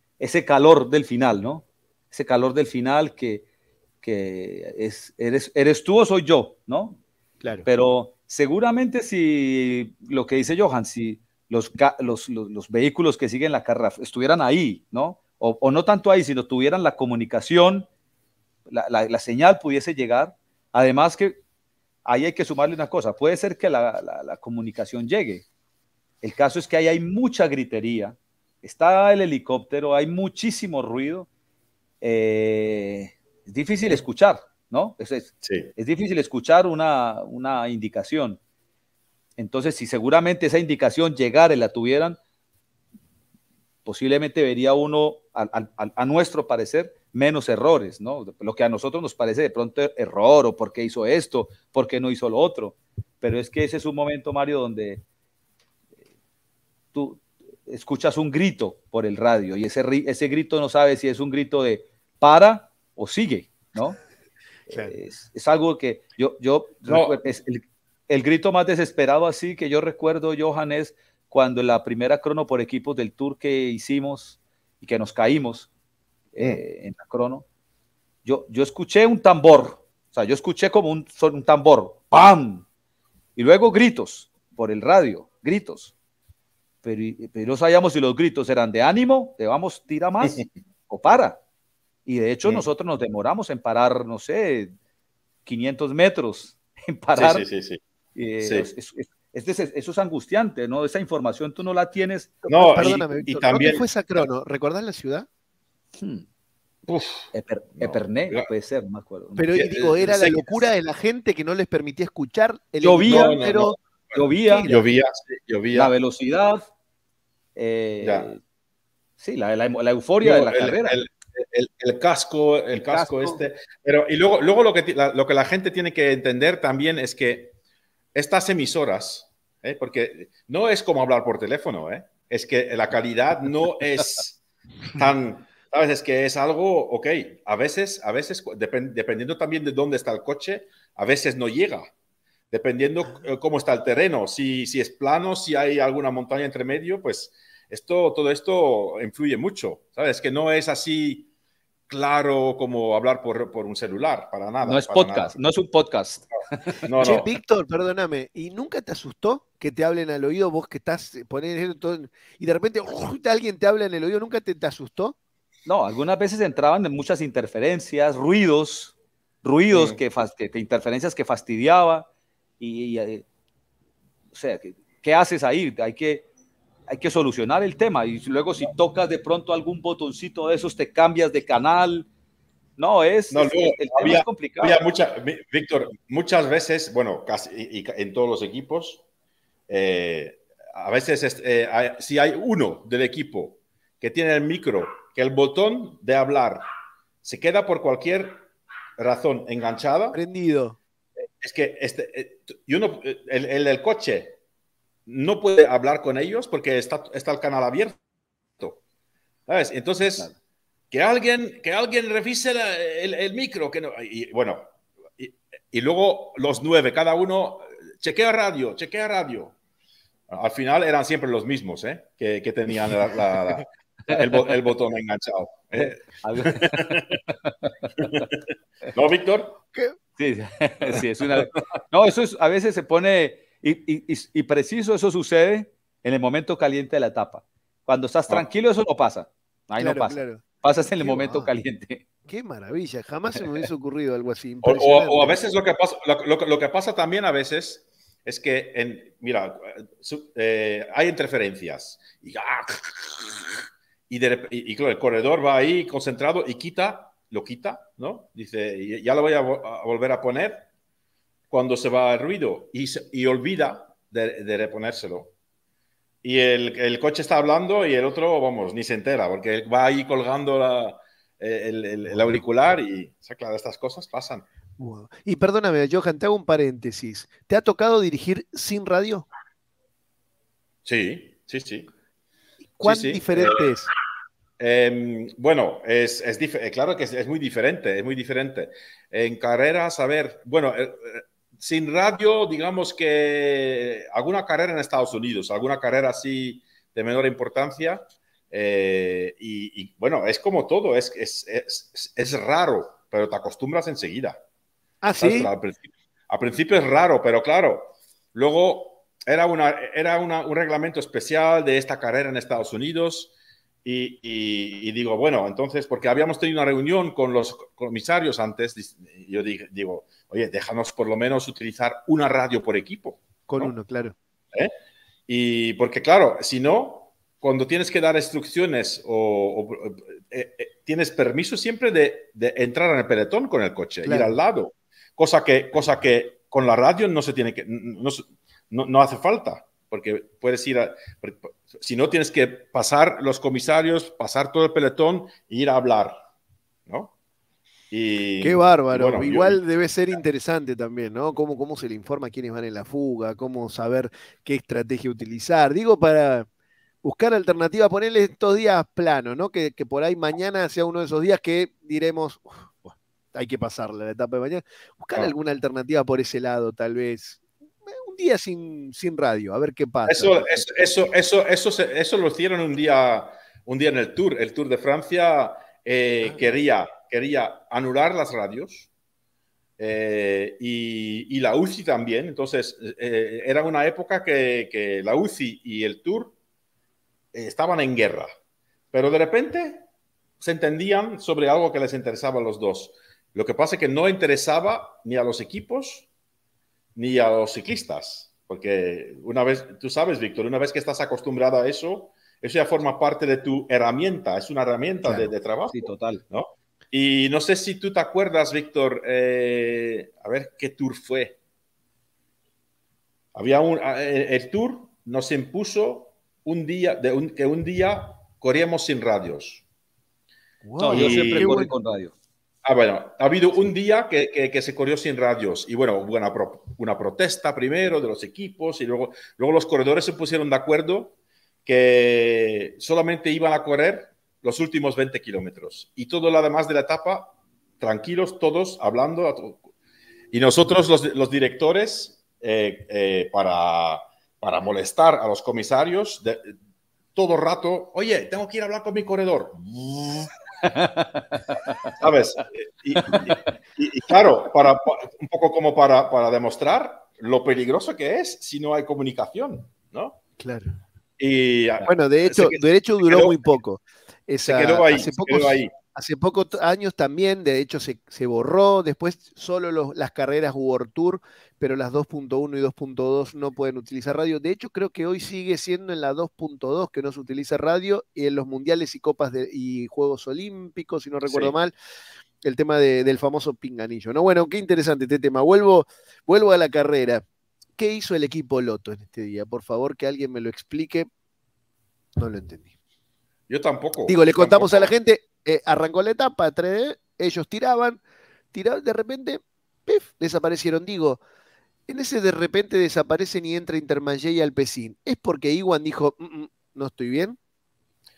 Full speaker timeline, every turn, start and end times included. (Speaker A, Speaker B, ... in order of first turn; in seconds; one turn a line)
Speaker A: 0.2-3.4
Speaker A: 4.0-7.0
Speaker B: 7.4-7.7
Speaker A: 7.7-17.9
Speaker A: 18.7-21.4
Speaker A: 22.0-25.4
Speaker A: 26.2-31.3
Speaker A: 32.0-38.4
Speaker C: 35.4-35.7
Speaker A: 39.4-42.2
Speaker A: 43.8-55.0
Speaker A: 56.9-64.0
Speaker A: 64.7-75.7
Speaker C: 66.9-67.2
Speaker A: 76.3-77.4
Speaker A: 78.2-82.6
Speaker A: 83.3-85.9
Speaker A: 86.8-91.4
Speaker A: 92.0-94.7
Speaker A: 95.5-97.4
Speaker C: 97.1-97.8
Speaker A: 98.1-102.4
Speaker C: 98.4-98.7
Speaker B: 102.4-105.3
Speaker C: 102.5-103.8
Speaker A: 105.9-106.2
Speaker C: 106.9-108.5
Speaker A: 107.3-109.5
Speaker B: 109.4-113.7
Speaker C: 109.5-110.7
Speaker A: 112.8-113.5
Speaker C: 113.0-115.9
Speaker A: 114.1-114.7
Speaker B: 114.4-114.8
Speaker A: 115.7-116.7
Speaker A: 117.5-118.4
Speaker C: 118.0-118.3
Speaker A: 119.2-121.0
Speaker C: 120.2-127.5
Speaker A: 122.7-123.4
Speaker C: 128.1-134.4
Speaker C: 134.9-141.9
Speaker C: 142.5-151.3
Speaker C: 151.9-155.3
Speaker A: 154.6-156.8
Speaker C: 156.8-157.3
Speaker B: 157.0-165.2
Speaker A: 165.7-172.1
Speaker C: 169.7-170.0
Speaker A: 172.6-173.2
Speaker A: 174.3-176.2
Speaker A: 176.9-182.1
Speaker A: 182.8-184.8
Speaker C: 183.3-189.0
Speaker C: 189.7-196.6
Speaker C: 197.2-198.4
Speaker C: 199.0-200.2
Speaker B: 200.1-200.8
Speaker C: 201.4-204.4
Speaker C: 205.1-208.0
Speaker C: 209.5-210.3
Speaker C: 210.9-219.6
Speaker C: 220.3-227.2
Speaker A: 224.1-224.4
Speaker A: 226.0-227.5
Speaker C: 228.0-229.6
Speaker A: 230.2-242.0
Speaker B: 239.8-240.4
Speaker B: 241.0-241.5
Speaker B: 242.3-245.3
Speaker C: 244.6-253.5
Speaker C: 254.1-260.6
Speaker C: 261.5-265.3
Speaker C: 266.2-274.4
Speaker B: 274.8-279.3
Speaker C: 280.8-281.9
Speaker B: 282.8-283.9
Speaker C: 282.8-283.6
Speaker C: 284.6-304.4
Speaker B: 305.0-305.5
Speaker C: 305.2-323.7
Speaker B: 323.5-324.1
Speaker C: 325.3-346.2
Speaker B: 334.0-334.4
Speaker C: 346.9-347.1
Speaker C: 347.9-349.6
Speaker B: 348.4-356.5
Speaker B: 357.0-370.7
Speaker C: 370.1-378.9
Speaker C: 379.8-386.3
Speaker C: 387.3-388.3
Speaker C: 388.9-389.8
Speaker C: 390.4-396.1
Speaker C: 396.9-411.4
Speaker B: 405.0-405.3
Speaker A: 405.7-406.2
Speaker C: 413.3-419.6
Speaker B: 420.6-421.7
Speaker A: 420.8-422.1
Speaker C: 420.9-421.6
Speaker C: 422.6-439.6
Speaker C: 440.3-446.6
Speaker C: 447.1-450.3
Speaker A: 450.7-451.2
Speaker C: 451.9-460.2
Speaker B: 460.4-460.7
Speaker C: 461.2-463.4
Speaker B: 461.8-481.7
Speaker C: 464.4-465.7
Speaker C: 481.2-481.5
Speaker B: 482.4-487.2
Speaker B: 487.8-491.1
Speaker B: 492.2-492.7
Speaker C: 493.5-494.9
Speaker B: 494.1-498.0
Speaker B: 498.5-501.2
Speaker B: 501.9-507.4